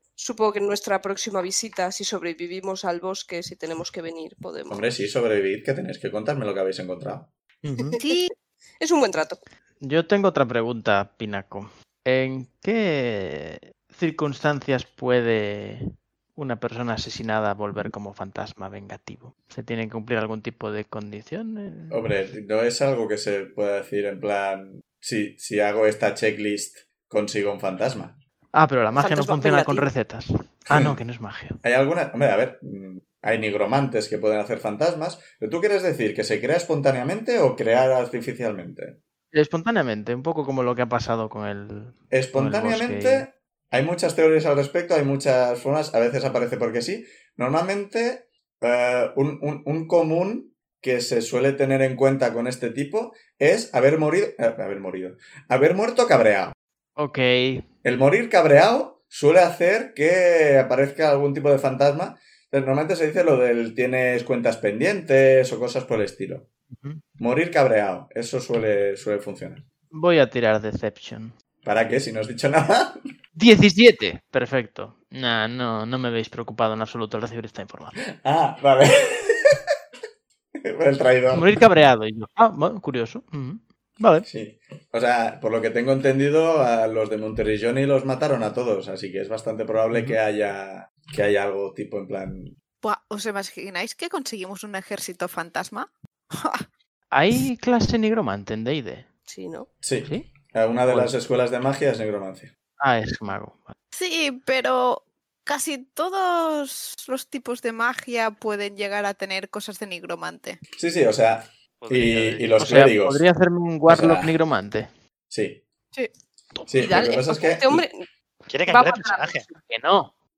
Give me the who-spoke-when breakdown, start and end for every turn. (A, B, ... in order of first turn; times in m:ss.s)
0:00.2-0:04.8 A
0:04.7-0:07.3 B
0:07.6-0:08.0 C
0:07.9-0:08.2 A
0:08.0-0:08.3 D
0:08.8-0:09.4 A
0:09.8-0:22.0 C
0:21.9-0:28.2 B
0:28.5-0:31.6 C
0:29.0-0:29.9 D
0:30.7-0:31.0 B
0:31.6-0:39.0 B
0:39.3-0:43.3 C
0:42.1-0:56.6 B
0:57.0-0:57.7 C
0:57.8-1:06.5 B
1:06.7-1:07.0 C
1:07.2-1:09.6 B
1:09.9-1:11.3 C
1:11.6-1:13.0 B
1:13.4-1:18.0 C
1:18.2-1:19.6 B
1:20.6-1:21.6 B
1:21.3-1:24.3 C
1:24.2-1:32.5 B
1:29.9-1:30.2 C
1:32.8-1:36.7 D
1:37.1-1:39.1 C
1:39.3-1:39.7 A
1:39.8-1:42.5 B
1:40.0-1:40.3 C
1:40.9-1:41.2 C
1:42.8-1:43.8 C
1:43.9-1:50.6 D
1:50.8-1:53.2 B
1:51.8-1:52.8 E
1:52.6-1:54.9 C
1:53.9-1:54.4 B
1:55.3-1:55.6 B
1:56.7-1:57.9 B
1:56.8-1:58.0 A
1:58.5-1:59.5 E
1:58.7-1:59.4 A
1:59.6-2:00.1 C